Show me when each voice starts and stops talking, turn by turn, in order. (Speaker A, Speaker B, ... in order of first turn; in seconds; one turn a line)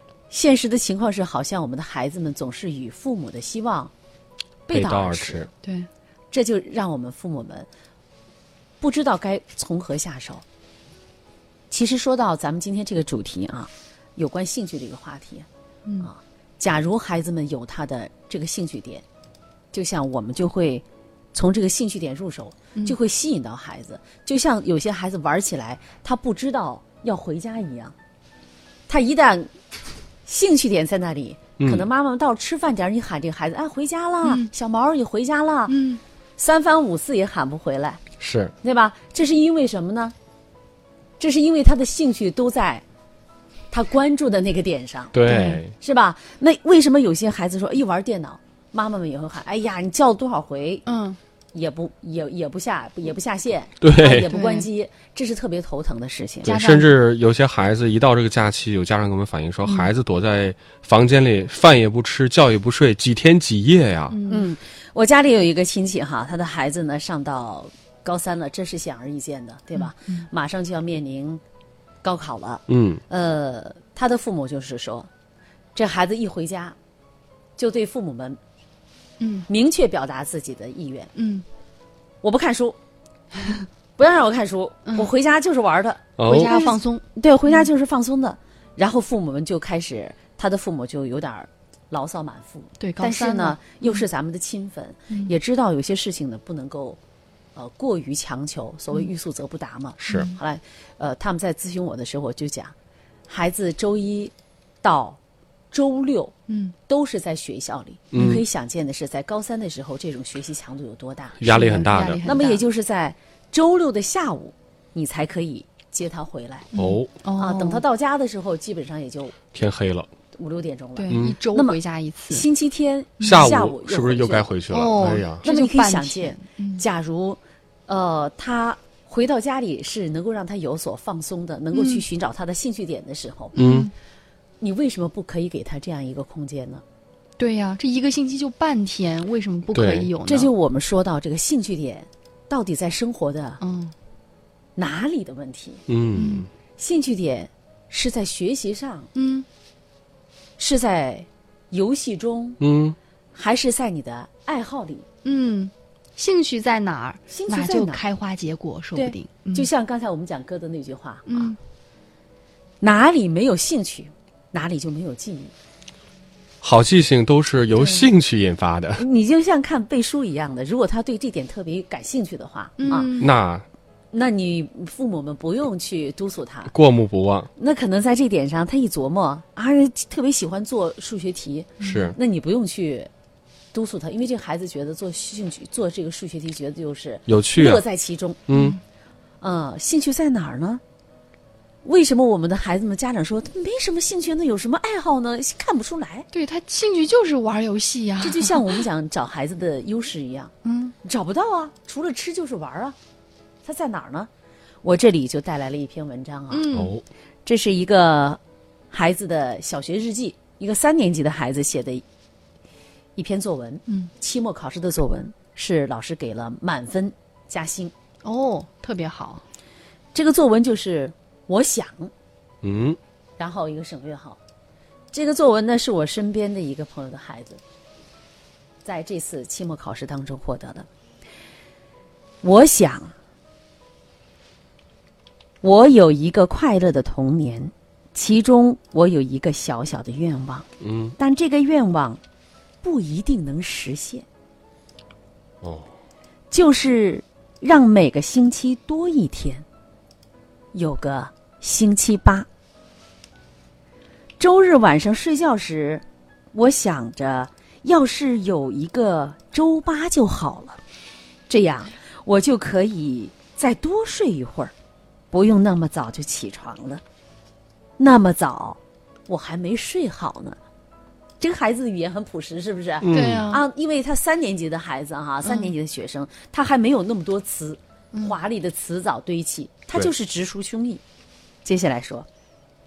Speaker A: 0.3-3.9
Speaker A: 4.7-5.5
Speaker B: 4.7-5.5
Speaker C: 5.6-5.9
Speaker A: 6.3-7.7
Speaker A: 8.8-10.4
Speaker A: 11.7-15.5
Speaker A: 16.0-19.0
Speaker A: 19.7-27.9
Speaker A: 28.9-29.5
Speaker A: 30.3-35.8
Speaker B: 31.6-31.9
Speaker C: 34.2-34.5
Speaker C: 35.7-36.0
Speaker A: 36.4-38.0
Speaker B: 38.2-38.5
Speaker A: 38.6-40.1
Speaker A: 41.2-42.8
Speaker A: 43.7-45.2
Speaker B: 45.1-45.7
Speaker C: 45.3-45.6
Speaker A: 45.7-50.9
Speaker C: 50.9-51.2
Speaker A: 51.5-56.5
Speaker B: 53.8-54.3
Speaker C: 54.3-54.7
Speaker C: 56.5-56.9
Speaker B: 56.5-64.2
Speaker C: 59.6-59.9
Speaker C: 64.1-64.5
Speaker A: 64.3-71.4
Speaker C: 69.8-70.3
Speaker A: 72.0-75.1
Speaker B: 72.7-73.0
Speaker A: 75.8-76.8
Speaker A: 77.6-78.4
Speaker C: 79.2-79.5
Speaker A: 79.5-81.1
Speaker C: 81.2-81.5
Speaker A: 82.2-82.8
Speaker A: 84.0-97.0
Speaker B: 86.2-86.6
Speaker C: 86.2-87.6
Speaker C: 92.8-94.0
Speaker A: 97.5-102.7
Speaker B: 100.0-100.3
Speaker A: 103.3-105.2
Speaker A: 105.7-106.4
Speaker C: 106.5-106.7
Speaker A: 106.9-111.7
Speaker B: 108.1-108.4
Speaker B: 111.4-112.2
Speaker C: 111.4-112.6
Speaker A: 112.2-116.7
Speaker C: 116.7-117.8
Speaker B: 116.8-117.1
Speaker A: 117.3-119.4
Speaker B: 119.5-120.1
Speaker A: 120.4-121.8
Speaker C: 121.0-122.5
Speaker B: 121.1-121.4
Speaker A: 122.3-124.5
Speaker C: 123.2-123.5
Speaker B: 123.2-125.4
Speaker C: 124.7-126.8
Speaker A: 125.4-133.6
Speaker C: 131.7-132.0
Speaker C: 133.6-133.9
Speaker B: 133.6-133.9
Speaker A: 134.6-136.8
Speaker C: 137.4-140.5
Speaker B: 139.7-140.1
Speaker A: 140.2-143.6
Speaker C: 143.6-143.9
Speaker A: 144.8-145.8
Speaker B: 145.9-146.5
Speaker C: 146.2-146.5
Speaker A: 146.8-149.1
Speaker C: 149.2-149.5
Speaker A: 150.6-152.6
Speaker B: 152.6-153.0
Speaker A: 153.3-155.1
Speaker C: 155.2-159.7
Speaker A: 157.3-158.0
Speaker A: 158.9-161.6
Speaker C: 161.3-161.6
Speaker A: 162.8-165.5
Speaker B: 166.6-169.0
Speaker A: 169.0-173.2
Speaker C: 172.8-173.3
Speaker B: 173.2-173.7
Speaker A: 174.1-176.7
Speaker B: 176.7-177.5
Speaker A: 177.6-183.1
Speaker B: 181.8-182.2
Speaker A: 183.7-188.4
Speaker B: 187.3-187.8
Speaker B: 188.5-188.8
Speaker C: 188.5-188.8
Speaker A: 189.4-190.8
Speaker A: 191.8-196.3
Speaker C: 196.3-198.8
Speaker A: 198.2-203.0
Speaker C: 200.6-200.9
Speaker A: 203.6-204.3
Speaker A: 204.8-206.7
Speaker C: 206.5-206.9
Speaker B: 206.7-207.0
Speaker A: 207.5-208.4
Speaker A: 208.9-212.0
Speaker A: 213.2-217.9
Speaker C: 218.2-219.4
Speaker A: 220.1-222.1
Speaker B: 222.6-223.0
Speaker A: 223.4-224.4
Speaker A: 225.1-227.6
Speaker A: 228.8-230.9
Speaker A: 232.4-233.1
Speaker A: 235.6-242.2
Speaker B: 240.8-241.2
Speaker A: 242.8-244.3
Speaker B: 245.6-245.9
Speaker A: 246.5-249.7
Speaker A: 250.7-252.5
Speaker A: 254.4-260.8
Speaker A: 261.5-264.7
Speaker A: 265.3-267.0
Speaker A: 268.0-270.6
Speaker A: 271.4-281.0
Speaker B: 273.0-273.5
Speaker C: 273.1-273.6
Speaker C: 275.4-275.7
Speaker A: 281.6-282.3